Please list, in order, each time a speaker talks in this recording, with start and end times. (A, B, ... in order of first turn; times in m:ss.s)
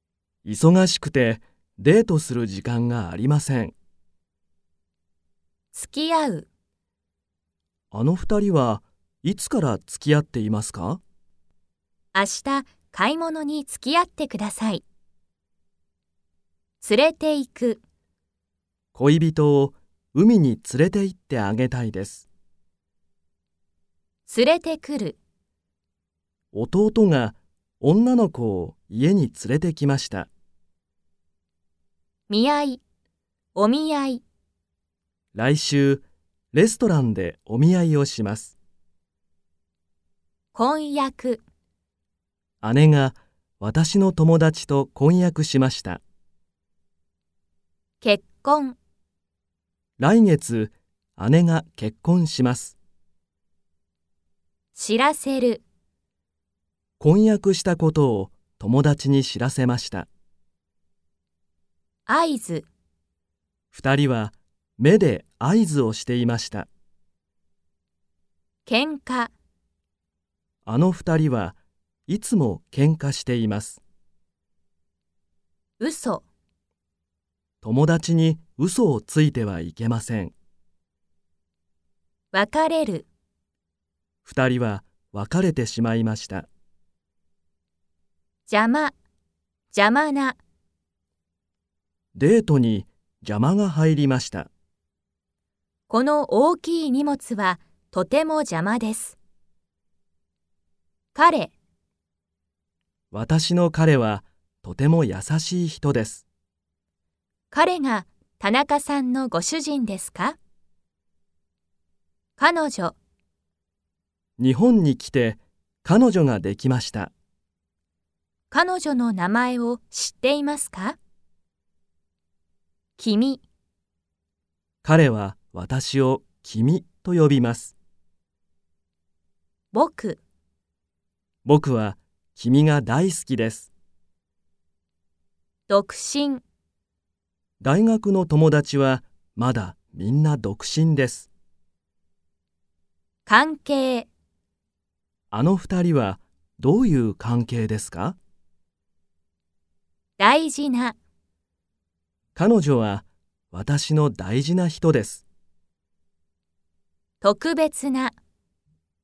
0:00.4-0:03.7 A
0:05.7-0:06.5 B
0:07.9-0:11.0 A
0:12.1-0:14.8 B
0:16.8-0:17.8 B
0:18.9-0:22.3 A
0:24.3-0:25.2 B
0:26.5-0:30.3 A
0:32.3-0:32.8 B
0:33.5-0:34.2 B
0:35.3-0:38.5 A
0:40.5-0:41.4 B
0:42.6-0:46.0 A
0:48.0-0:48.8 B
0:50.0-0:52.8 A
0:54.7-0:55.6 B
0:57.0-1:00.1 A
1:02.1-1:02.7 B
1:03.7-1:06.7 A
1:08.6-1:09.3 B
1:10.6-1:13.8 A
1:15.8-1:16.2 B
1:17.6-1:20.3 A
1:22.3-1:23.1 B
1:24.2-1:26.5 A
1:28.5-1:28.9 B
1:29.7-1:30.4 B
1:32.1-1:34.5 A
1:35.9-1:39.2 B
1:41.1-1:41.5 B
1:43.1-1:46.2 A
1:47.5-1:50.4 B
1:52.4-1:53.0 B
1:54.4-1:57.1 A
1:58.5-2:01.0 B
2:03.0-2:03.4 B
2:04.8-2:07.7 A
2:09.7-2:10.2 B
2:11.4-2:13.7 A
2:15.7-2:16.4 B
2:17.6-2:21.3 A
2:23.2-2:24.1 B
2:25.3-2:28.2 A
2:30.2-2:31.0 B
2:32.3-2:35.2 A
2:37.2-2:38.2 B